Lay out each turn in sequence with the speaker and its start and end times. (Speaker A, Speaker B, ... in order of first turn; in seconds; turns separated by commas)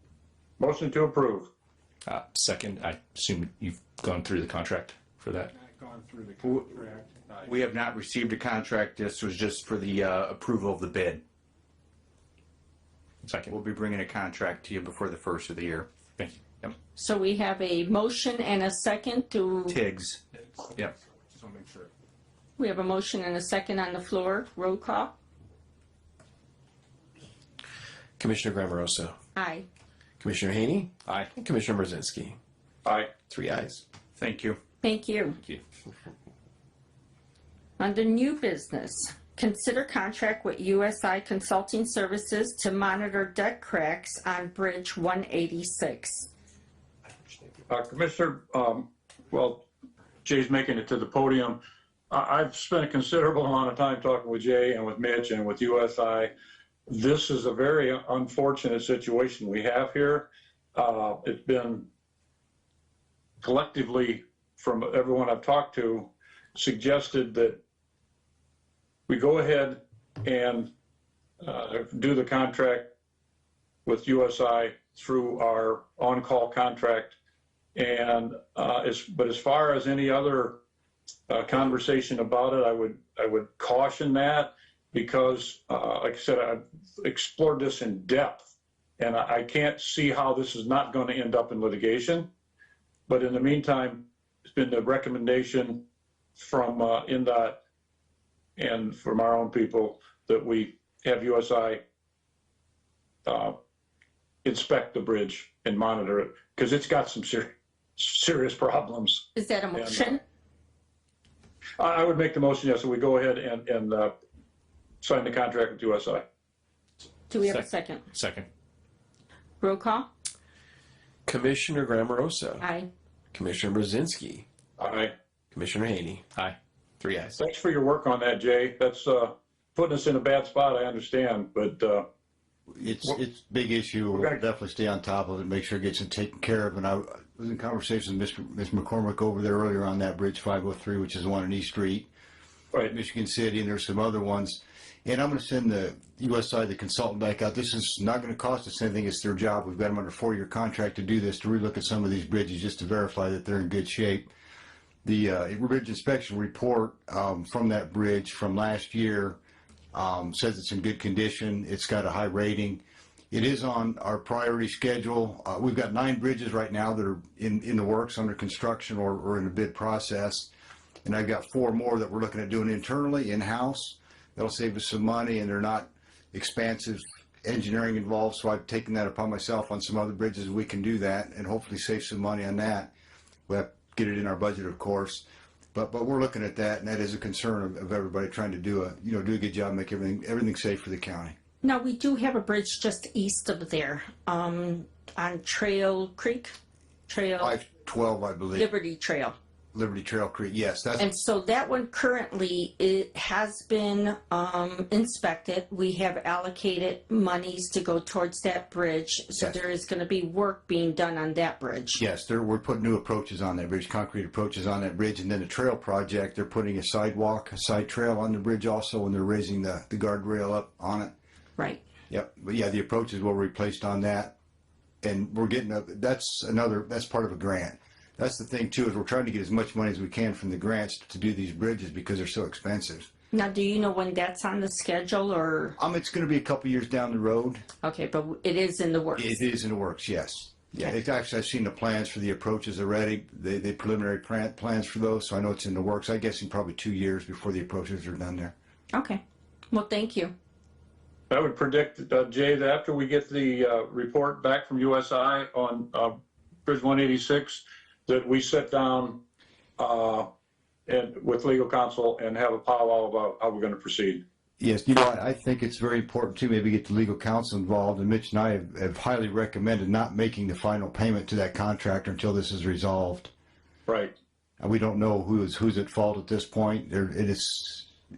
Speaker A: 0.6-1.5, Speaker B: 2.0-5.5, Speaker C: 5.6-7.5, Speaker D: 7.5-11.2, Speaker B: 13.2-13.5, Speaker D: 13.5-15.9, Speaker B: 16.2-16.4, Speaker E: 16.9-19.8, Speaker D: 19.7-20.2, Speaker C: 21.4-21.9, Speaker E: 22.6-25.1, Speaker F: 28.2-29.1, Speaker E: 29.3-29.7, Speaker F: 30.2-32.4, Speaker A: 32.8-33.1, Speaker F: 33.3-33.8, Speaker D: 34.2-34.6, Speaker E: 34.8-35.4, Speaker E: 37.8-46.3, Speaker A: 47.7-49.6, Speaker A: 50.2-56.3, Speaker A: 56.9-61.9, Speaker A: 63.4-67.6, Speaker A: 69.1-70.7, Speaker A: 71.4-72.9, Speaker A: 73.8-77.1, Speaker A: 77.7-80.6, Speaker A: 81.3-92.3, Speaker A: 93.1-95.8, Speaker A: 96.4-97.6, Speaker A: 98.6-101.8, Speaker A: 103.2-103.6, Speaker A: 104.4-109.2, Speaker E: 109.3-110.2, Speaker A: 109.8-110.1, Speaker A: 111.8-114.1, Speaker A: 115.0-116.2, Speaker E: 117.3-118.0, Speaker B: 117.4-118.5, Speaker E: 119.6-120.1, Speaker F: 121.2-122.6, Speaker E: 122.6-122.9, Speaker F: 123.3-124.4, Speaker A: 124.8-125.1, Speaker F: 125.5-126.2, Speaker B: 126.3-127.3, Speaker A: 127.3-132.1, Speaker G: 132.8-142.1, Speaker A: 134.1-134.4, Speaker G: 142.9-154.3, Speaker G: 155.0-159.4, Speaker G: 159.9-170.5, Speaker G: 171.0-182.9, Speaker G: 183.5-185.2, Speaker G: 185.7-191.3, Speaker E: 191.6-196.5, Speaker E: 197.1-197.6, Speaker G: 197.4-198.7, Speaker E: 198.5-199.3, Speaker G: 199.7-201.1, Speaker E: 201.0-212.0, Speaker G: 211.9-221.1, Speaker G: 222.1-224.3, Speaker G: 225.0-233.1, Speaker E: 233.3-235.8, Speaker G: 235.8-237.6, Speaker E: 237.8-239.4, Speaker G: 239.2-248.5, Speaker E: 248.9-250.3, Speaker A: 251.3-259.2, Speaker A: 259.8-260.3, Speaker A: 260.9-264.2, Speaker G: 264.6-273.3, Speaker A: 273.9-274.1, Speaker G: 274.6-277.9